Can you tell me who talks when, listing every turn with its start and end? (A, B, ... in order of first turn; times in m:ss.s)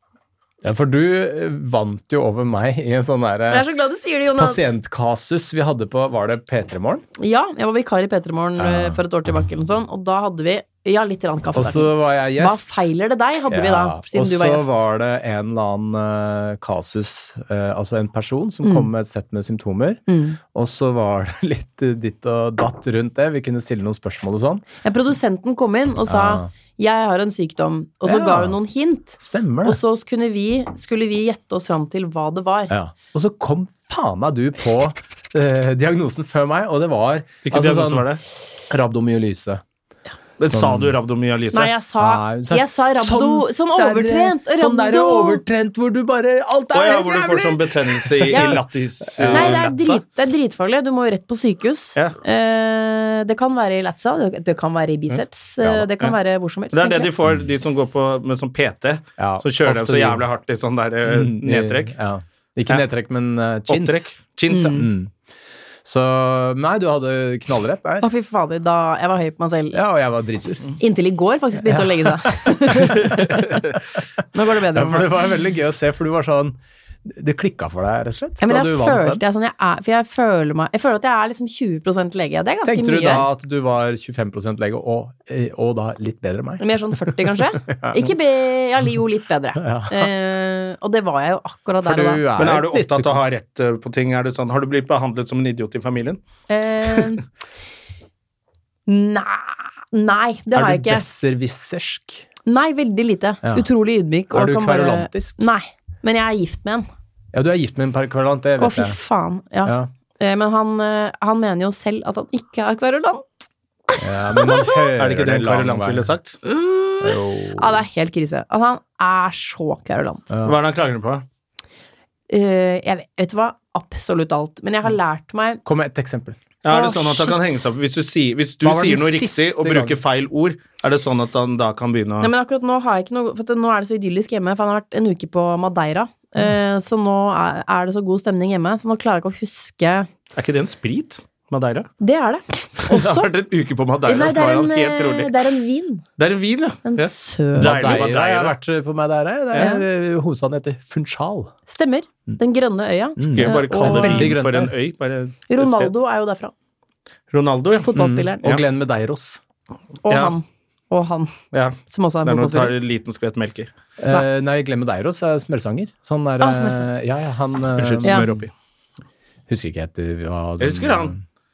0:00.6-0:03.7 A
0:03.5-0:04.7 B
0:04.2-0:07.0 A
0:07.2-0:14.8 B
0:08.6-0:09.0 A
0:11.6-0:12.9 A
0:13.5-0:20.0 A
0:18.6-0:18.9 B
0:20.1-0:20.4 B
0:20.5-0:24.7 A
0:24.8-0:32.7 B
0:26.1-0:26.5 A
0:28.0-0:28.6 A
0:29.2-0:29.8 A
0:32.7-0:38.1 A
0:37.5-0:38.2 C
0:38.7-0:39.6 A
0:40.4-0:41.7 C
0:40.5-0:41.0 A
0:41.5-0:45.4 B
0:42.0-0:49.7 A
0:46.7-0:50.0 C
0:48.3-0:48.6 B
0:49.3-0:57.1 B
0:55.6-0:55.9 A
0:56.7-1:02.0 C
0:59.2-1:00.2 A
1:01.1-1:05.1 A
1:03.7-1:04.8 C
1:04.5-1:04.9 B
1:05.8-1:08.1 A
1:08.0-1:09.8 B
1:09.7-1:10.7 A
1:10.8-1:13.4 B
1:11.6-1:13.6 A
1:14.3-1:15.3 B
1:14.7-1:19.2 A
1:18.4-1:23.3 B
1:22.6-1:28.1 A
1:26.6-1:32.2 B
1:29.6-1:30.1 A
1:31.8-1:33.2 A
1:32.4-1:36.2 C
1:36.5-1:37.2 B
1:38.9-1:41.0 B
1:40.5-1:42.3 A
1:42.5-1:46.9 B
1:43.4-1:43.7 A
1:44.3-1:45.5 A
1:47.3-1:49.0 A
1:48.6-1:53.3 B
1:49.6-1:49.9 A
1:53.9-1:54.7 B
1:54.0-1:56.1 A
1:55.0-1:56.4 C
1:56.5-2:00.3 B
1:57.0-1:57.9 A
2:00.3-2:00.6 A
2:00.4-2:01.2 C
2:02.3-2:05.6 B
2:05.6-2:06.4 A
2:06.6-2:12.3 C
2:06.7-2:07.4 B
2:08.6-2:10.0 A
2:12.2-2:20.1 B
2:20.4-2:21.9 C
2:22.0-2:23.3 B
2:22.8-2:25.3 C
2:24.0-2:26.0 B
2:26.2-2:28.6 C
2:26.8-2:28.0 B
2:27.6-2:31.5 A
2:29.6-2:29.8 B
2:31.7-2:34.3 B
2:33.2-2:34.7 A
2:33.3-2:35.9 C
2:35.5-2:36.5 B
2:37.3-2:37.9 C
2:37.8-2:38.4 B
2:37.9-2:39.4 A
2:40.0-2:41.4 B
2:40.1-2:40.3 C
2:41.5-2:43.7 C
2:41.9-2:42.8 B
2:44.0-2:48.4 A
2:46.4-2:46.9 B
2:47.8-2:48.5 C
2:48.0-2:48.3 B
2:49.5-2:51.2 A
2:50.6-2:51.1 C